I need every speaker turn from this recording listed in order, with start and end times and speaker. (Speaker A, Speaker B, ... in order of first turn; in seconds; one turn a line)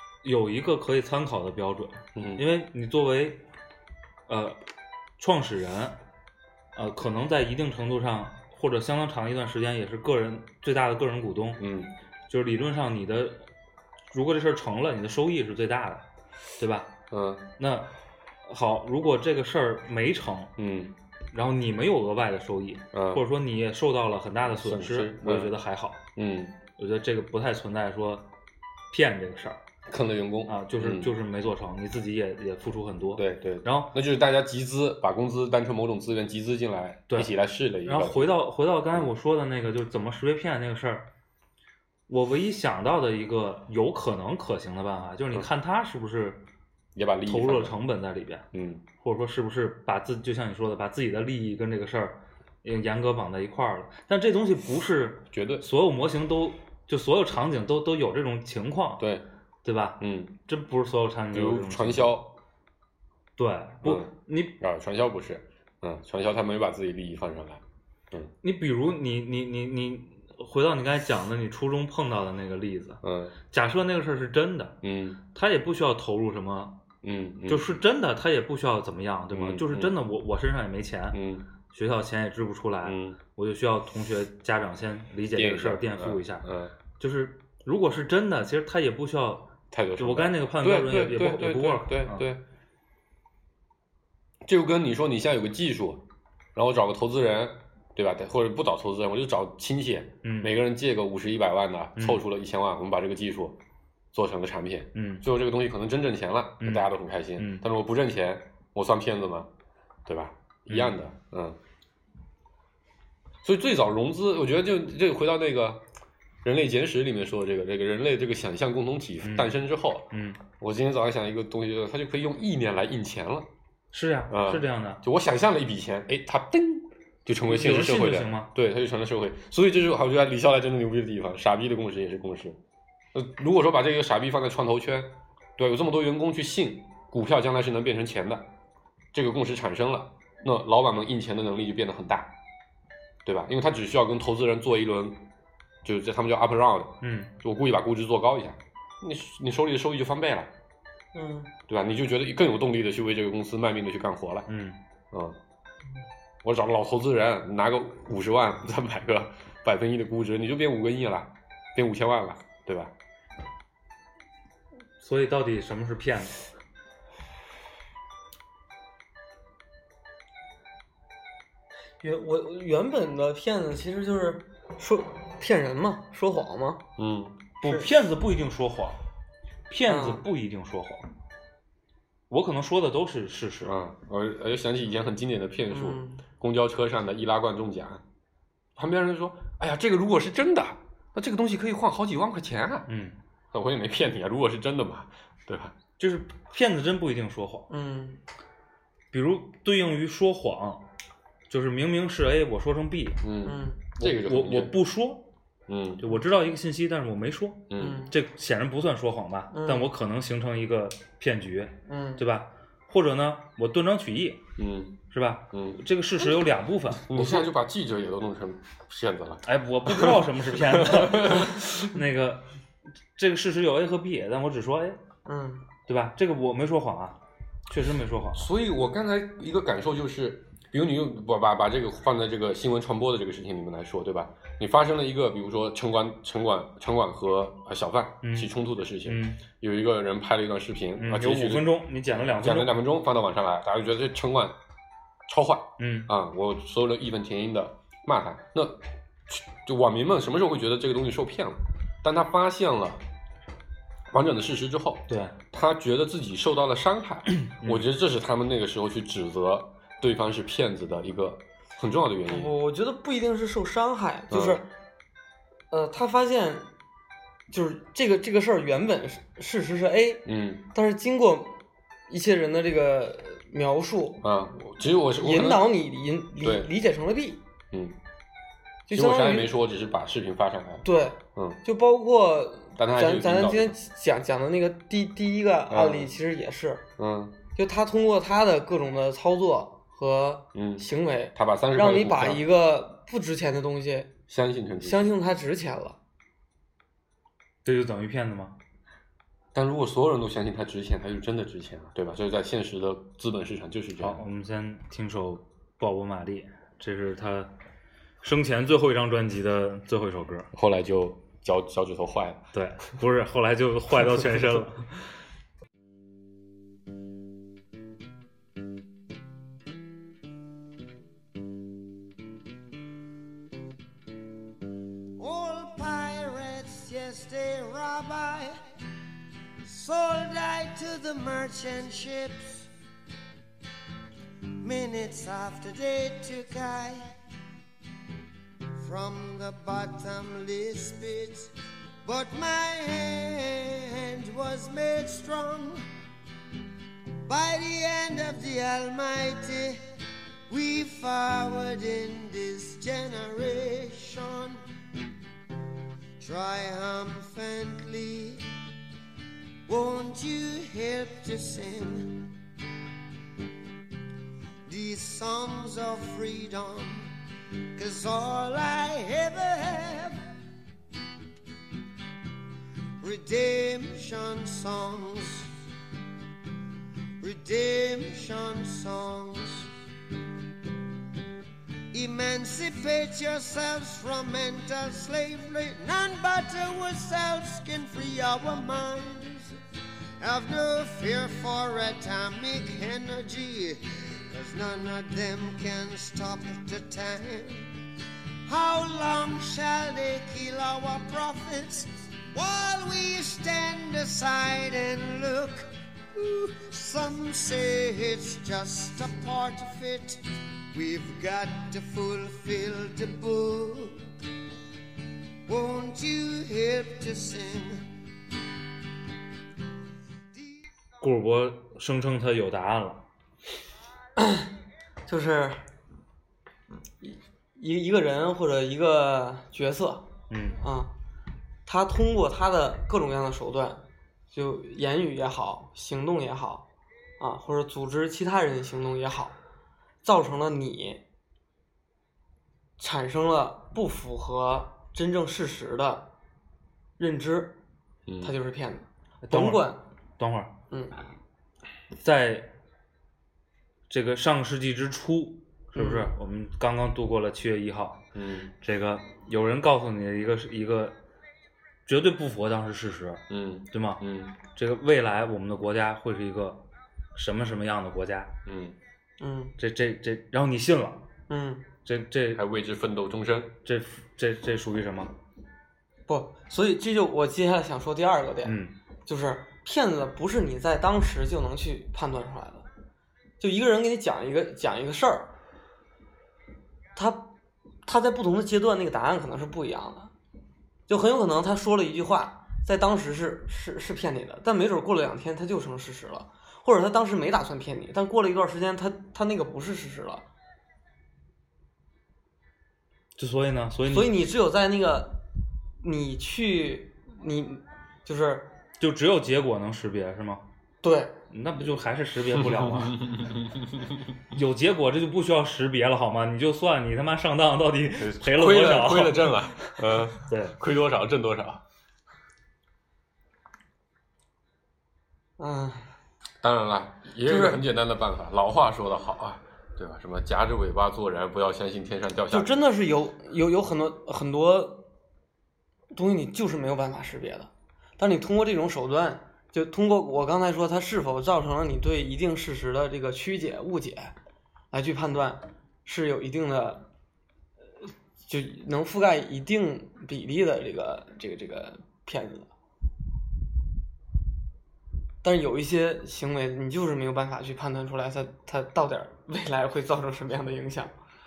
Speaker A: 0.2-3.4
Speaker B: 2.1-2.5
Speaker A: 4.3-4.6
Speaker A: 5.2-6.0
Speaker A: 6.7-11.6
Speaker B: 11.6-11.9
Speaker A: 12.3-13.5
Speaker A: 14.1-16.1
Speaker A: 16.6-16.9
Speaker B: 17.1-17.5
Speaker A: 17.6-17.9
Speaker A: 18.4-20.5
Speaker B: 20.6-20.9
Speaker A: 21.3-26.0
Speaker B: 22.9-23.2
Speaker B: 24.4-25.5
Speaker B: 26.1-26.6
Speaker A: 26.8-28.3
Speaker A: 28.9-29.6
Speaker B: 29.9-31.1
Speaker A: 30.5-33.9
Speaker B: 33.1-38.3
Speaker A: 37.8-41.1
Speaker A: 42.1-46.4
Speaker B: 46.9-47.8
Speaker A: 47.2-48.5
Speaker B: 48.5-48.8
Speaker A: 49.0-59.0
Speaker B: 55.3-55.6
Speaker B: 59.0-59.2
Speaker A: 59.6-62.1
Speaker B: 60.0-60.4
Speaker B: 61.3-62.4
Speaker A: 63.4-64.6
Speaker B: 63.8-68.3
Speaker A: 68.4-74.8
Speaker B: 73.0-73.3
Speaker B: 74.8-75.2
Speaker A: 75.3-76.8
Speaker B: 77.0-77.7
Speaker A: 77.5-81.2
Speaker B: 79.3-80.0
Speaker B: 81.1-81.5
Speaker A: 81.7-92.2
Speaker B: 82.8-83.2
Speaker B: 85.3-86.7
Speaker B: 89.7-92.4
Speaker B: 94.4-96.0
Speaker B: 96.5-103.6
Speaker A: 100.2-100.5
Speaker A: 102.0-102.2
Speaker B: 104.1-109.5
Speaker A: 104.9-105.2
Speaker A: 106.6-107.6
Speaker B: 110.0-111.6
Speaker A: 110.7-111.0
Speaker B: 113.4-115.8
Speaker B: 116.4-123.5
Speaker A: 119.2-119.6
Speaker A: 120.1-120.4
Speaker A: 123.9-125.0
Speaker B: 124.3-132.6
Speaker A: 127.5-128.5
Speaker B: 133.1-138.5
Speaker B: 139.1-142.3
Speaker B: 143.2-145.2
Speaker B: 145.8-150.5
Speaker A: 147.0-147.3
Speaker C: 151.1-151.5
Speaker B: 151.7-154.5
Speaker A: 154.5-154.8
Speaker B: 155.1-155.4
Speaker B: 156.4-162.9
Speaker A: 165.0-166.4
Speaker C: 172.0-176.8
Speaker B: 177.0-177.4
Speaker A: 177.6-179.0
Speaker C: 177.6-177.9
Speaker A: 179.7-181.1
Speaker C: 179.9-180.2
Speaker A: 182.3-183.7
Speaker B: 183.6-188.0
Speaker C: 185.7-186.2
Speaker B: 188.8-192.9
Speaker A: 192.9-193.2
Speaker B: 193.5-195.7
Speaker A: 196.0-197.7
Speaker C: 197.7-198.2
Speaker A: 199.1-200.8
Speaker A: 201.5-203.2
Speaker B: 203.2-204.8
Speaker C: 203.4-203.8
Speaker A: 204.0-205.2
Speaker B: 205.7-206.0
Speaker A: 206.0-214.4
Speaker B: 207.7-208.1
Speaker C: 207.8-208.1
Speaker C: 209.5-209.9
Speaker C: 211.9-212.2
Speaker B: 214.6-215.0
Speaker A: 215.1-217.4
Speaker B: 215.5-215.8
Speaker B: 217.1-221.9
Speaker A: 219.4-222.5
Speaker A: 223.2-225.0
Speaker C: 225.2-225.6
Speaker A: 225.9-228.5
Speaker B: 228.3-241.8
Speaker A: 238.2-238.5
Speaker A: 239.0-239.4
Speaker A: 241.0-242.7
Speaker B: 242.3-244.6
Speaker B: 245.3-253.0
Speaker A: 245.8-246.1
Speaker B: 254.1-262.5
Speaker A: 255.1-255.3
Speaker A: 257.4-257.9
Speaker C: 262.2-264.6
Speaker B: 264.3-264.6
Speaker C: 265.7-266.7
Speaker C: 267.5-274.2
Speaker B: 270.2-270.6
Speaker B: 274.2-275.7
Speaker C: 275.1-277.4
Speaker B: 276.4-276.7
Speaker B: 277.7-278.0
Speaker C: 278.9-279.5
Speaker B: 278.9-281.6
Speaker C: 280.8-286.8
Speaker B: 282.8-283.7
Speaker B: 285.7-286.1
Speaker B: 287.0-287.4
Speaker C: 287.5-294.1
Speaker B: 290.5-292.4
Speaker B: 294.3-295.1
Speaker C: 294.8-296.0
Speaker A: 297.6-298.5
Speaker B: 299.5-304.2
Speaker A: 304.0-307.5
Speaker A: 308.2-310.5
Speaker B: 310.5-312.5
Speaker A: 312.5-315.0
Speaker D: 325.2-328.6
Speaker D: 329.6-332.7
Speaker D: 334.6-337.1
Speaker D: 338.8-341.5
Speaker D: 342.0-345.8
Speaker D: 347.2-349.8
Speaker D: 350.5-354.6
Speaker D: 356.2-358.4
Speaker D: 359.7-362.3
Speaker D: 364.6-367.1
Speaker D: 367.7-370.2
Speaker D: 373.0-375.5
Speaker D: 377.2-379.7
Speaker D: 381.9-389.6
Speaker D: 390.2-397.8
Speaker D: 398.4-414.0
Speaker D: 415.5-417.9
Speaker A: 421.0-423.0
Speaker C: 424.2-424.5
Speaker C: 425.1-425.6
Speaker C: 427.0-430.1
Speaker A: 430.3-430.6
Speaker C: 430.6-430.9
Speaker C: 431.6-436.6
Speaker C: 437.2-439.3
Speaker C: 440.0-441.0
Speaker C: 442.8-446.1
Speaker C: 447.0-447.6
Speaker B: 448.1-448.3
Speaker C: 448.2-449.8
Speaker A: 449.2-450.5
Speaker C: 450.7-451.0
Speaker A: 451.9-452.5
Speaker A: 453.9-458.0
Speaker C: 455.8-456.1
Speaker B: 458.1-458.5
Speaker A: 458.6-460.9
Speaker A: 461.9-468.3
Speaker B: 463.3-464.4
Speaker B: 468.4-468.8
Speaker C: 469.2-469.5
Speaker A: 469.6-471.0
Speaker C: 471.3-471.7
Speaker A: 471.8-472.4
Speaker B: 472.3-473.6
Speaker A: 473.6-475.1
Speaker C: 476.1-482.7
Speaker A: 478.4-478.7
Speaker C: 483.4-485.3
Speaker C: 486.9-487.3
Speaker C: 487.8-490.1
Speaker C: 490.9-500.2
Speaker A: 503.2-504.1
Speaker C: 503.9-505.2
Speaker C: 505.8-508.5
Speaker A: 508.8-510.4
Speaker C: 510.8-511.2
Speaker A: 511.3-513.1
Speaker B: 512.6-513.4
Speaker A: 514.3-520.5
Speaker B: 518.0-521.6
Speaker C: 525.4-525.9
Speaker B: 526.4-532.6
Speaker C: 527.2-527.6
Speaker C: 532.3-534.9
Speaker C: 535.9-544.1
Speaker C: 544.7-546.9
Speaker C: 548.3-552.5
Speaker C: 555.2-560.9